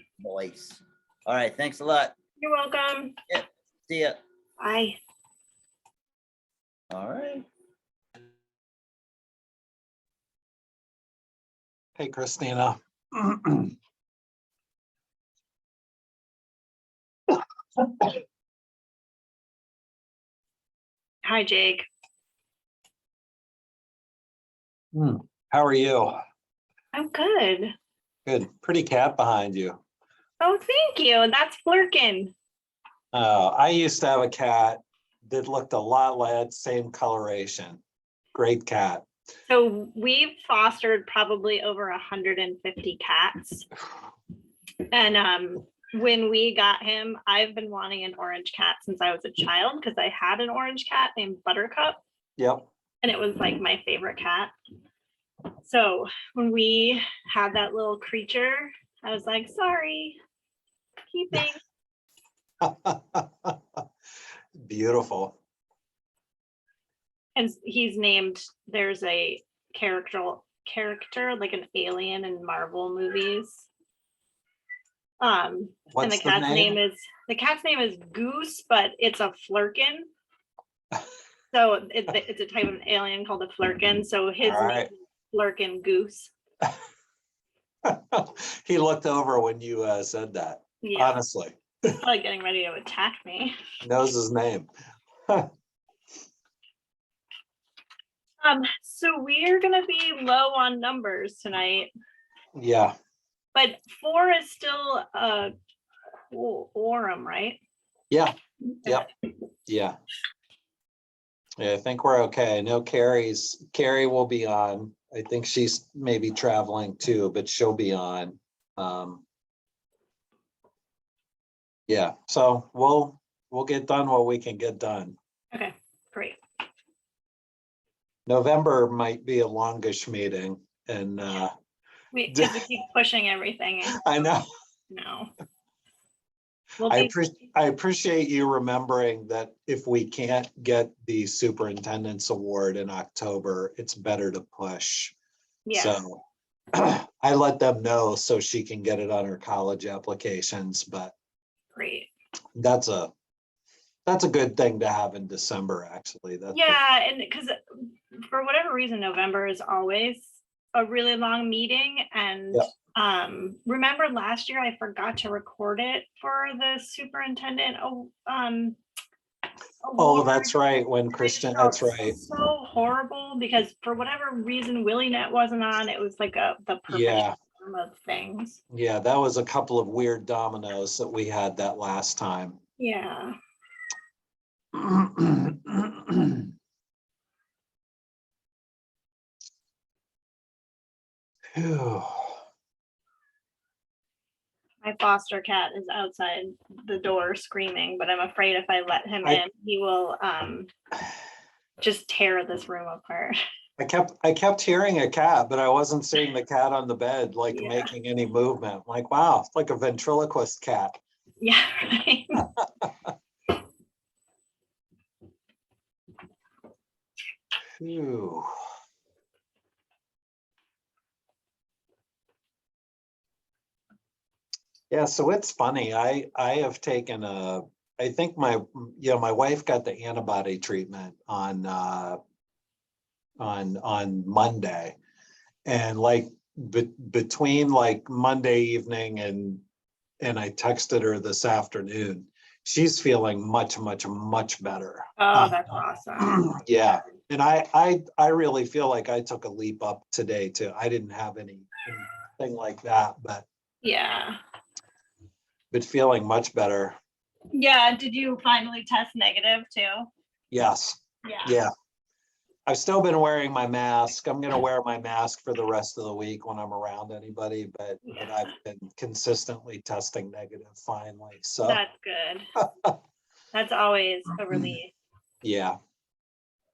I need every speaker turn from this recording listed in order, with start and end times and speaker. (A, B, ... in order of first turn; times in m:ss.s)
0:00.2-0:02.1 A
0:02.4-0:03.2 B
0:03.3-0:04.2 A
0:04.6-0:05.0 B
0:06.9-0:07.4 A
0:12.0-0:13.7 C
0:17.8-0:18.1 C
0:21.2-0:21.9 B
0:24.9-0:26.2 C
0:26.9-0:27.7 B
0:28.2-0:29.8 C
0:30.4-0:32.3 B
0:33.1-0:37.8 C
0:38.3-0:39.0 C
0:39.5-0:43.7 B
0:44.9-0:52.0 B
0:52.4-0:52.6 C
0:53.0-0:54.5 B
0:55.6-1:00.2 B
1:01.1-1:01.6 B
1:02.6-1:03.8 C
1:04.6-1:05.4 C
1:07.4-1:13.7 B
1:15.2-1:20.1 B
1:15.9-1:16.8 C
1:21.5-1:26.3 B
1:24.4-1:24.9 C
1:27.8-1:31.9 C
1:30.8-1:31.2 B
1:32.0-1:33.5 B
1:33.8-1:34.7 C
1:38.4-1:41.9 B
1:42.5-1:42.9 C
1:43.5-1:45.5 B
1:46.3-1:47.6 B
1:49.7-1:50.0 C
1:51.6-1:59.2 C
2:01.9-2:05.2 C
2:05.5-2:06.4 B
2:08.3-2:11.5 C
2:12.1-2:14.0 B
2:12.3-2:12.7 C
2:13.9-2:14.4 C
2:14.9-2:15.3 B
2:16.8-2:17.1 B
2:16.8-2:25.1 C
2:25.6-2:26.0 B
2:25.7-2:26.2 C
2:26.7-2:31.1 C
2:31.7-2:32.1 B
2:32.6-2:33.1 C
2:34.0-2:36.8 C
2:36.5-2:48.8 B
2:49.8-2:50.6 B
2:50.0-2:52.2 C
2:51.1-2:58.6 B
2:56.9-2:57.4 C
2:58.7-3:02.6 C
3:02.8-3:03.3 B
3:04.7-3:06.5 C
3:11.6-3:12.4 C
3:14.8-3:20.7 B
3:21.8-3:23.4 B
3:23.8-3:31.0 C
3:27.5-3:27.9 B
3:31.4-3:32.4 B
3:32.6-3:33.1 C
3:37.8-3:38.4 C
3:44.9-3:52.2 C
3:53.4-3:55.0 C
3:55.6-3:59.6 C
4:00.2-4:05.6 C
4:05.2-4:06.4 B
4:06.2-4:13.4 C
4:13.8-4:14.4 B
4:15.7-4:17.0 C
4:17.5-4:20.1 B
4:20.5-4:21.7 C
4:21.2-4:21.6 B
4:22.7-4:31.8 C
4:31.6-4:32.5 B
4:33.5-4:34.9 B
4:35.4-4:35.8 C